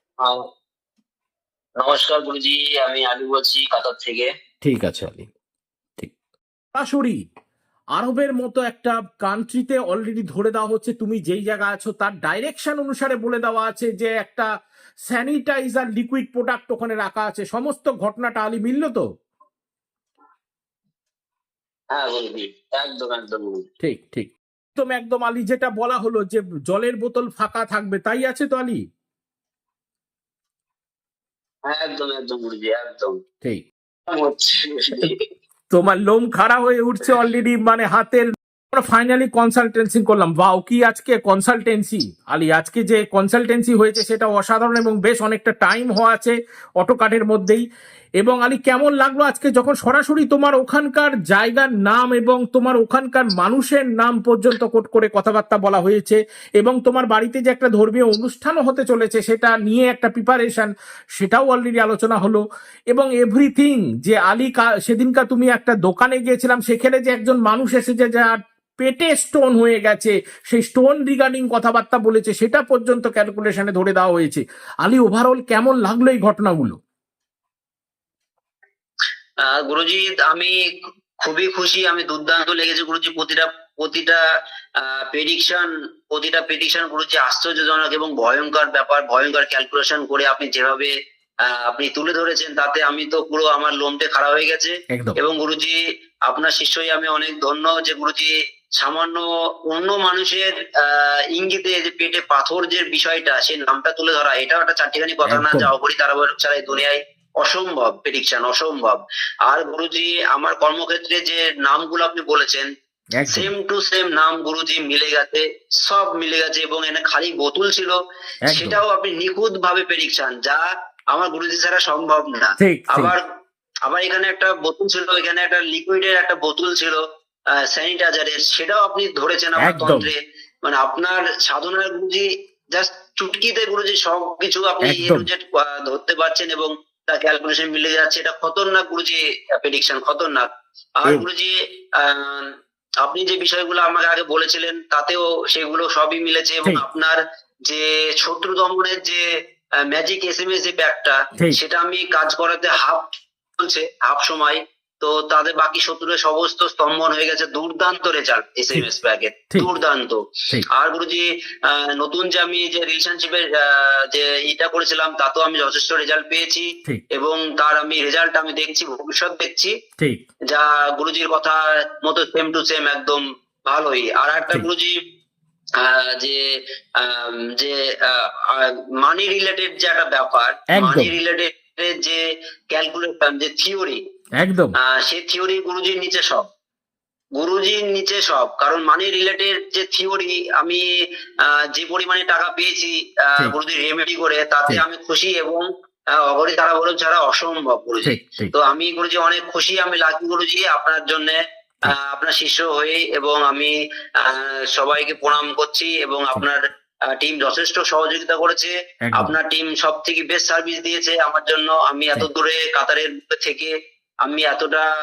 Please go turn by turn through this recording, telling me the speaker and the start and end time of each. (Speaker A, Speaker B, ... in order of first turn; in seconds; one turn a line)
Speaker A: 1.8-4.3
Speaker B: 4.6-5.3
Speaker B: 6.7-7.2
Speaker B: 8.0-14.5
Speaker B: 15.1-19.0
Speaker A: 21.9-23.6
Speaker B: 23.8-28.8
Speaker A: 31.7-33.2
Speaker A: 34.1-35.2
Speaker B: 35.7-47.6
Speaker B: 48.2-76.8
Speaker A: 79.4-80.5
Speaker A: 81.2-84.2
Speaker A: 84.8-90.9
Speaker A: 91.5-112.7
Speaker B: 94.9-95.2
Speaker B: 105.3-105.7
Speaker B: 113.2-113.5
Speaker A: 113.3-118.0
Speaker B: 118.5-118.8
Speaker A: 118.5-123.2
Speaker B: 122.6-123.2
Speaker A: 123.9-127.0
Speaker A: 127.6-140.5
Speaker B: 129.6-130.1
Speaker B: 134.8-135.3
Speaker A: 141.0-149.2
Speaker A: 149.9-169.7
Speaker A: 170.5-175.0
Speaker A: 175.8-176.4
Speaker A: 177.0-184.0
Speaker B: 180.7-181.2
Speaker B: 184.4-184.7
Speaker A: 184.8-186.5
Speaker A: 187.4-190.8
Speaker A: 191.5-213.7
Speaker B: 198.0-198.5
Speaker B: 209.0-209.4
Speaker A: 214.2-214.9